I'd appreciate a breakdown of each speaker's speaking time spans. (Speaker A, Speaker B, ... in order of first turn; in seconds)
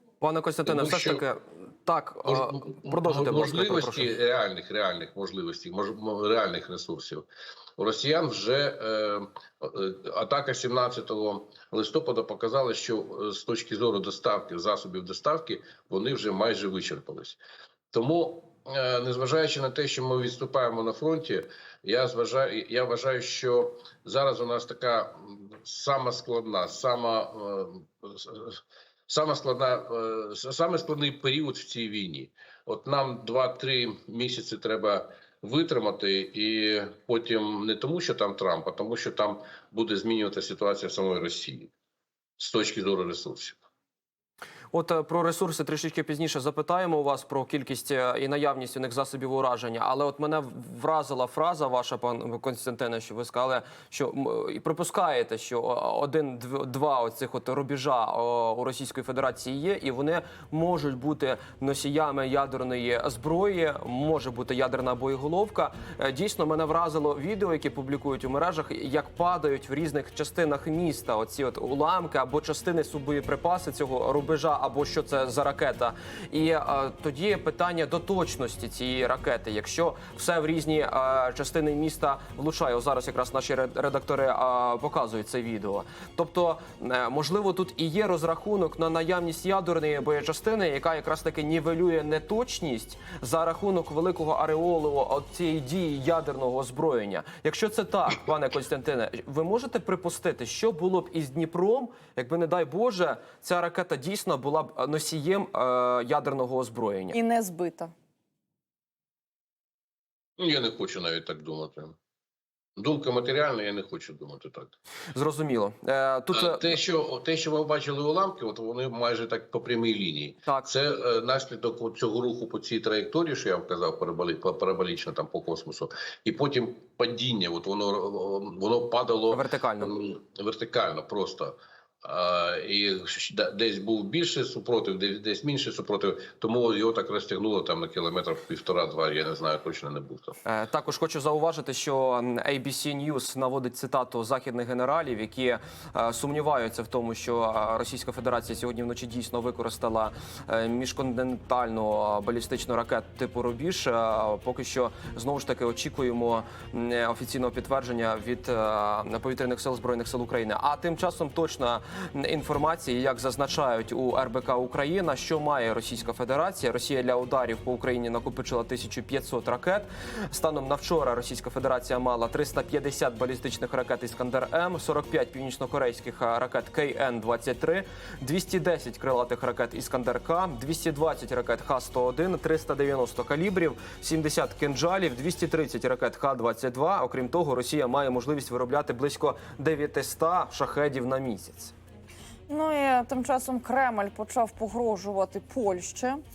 Speaker A: 0.2-4.1, 44.7-107.2, 115.1-116.7, 129.3-129.9, 140.5-191.7
Speaker B: 0.7-1.2, 2.3-7.3, 7.8-17.4, 17.9-41.7, 42.4-43.6, 110.4-112.0, 112.8-114.8, 116.3-140.4
Speaker C: 107.1-107.9, 192.5-196.2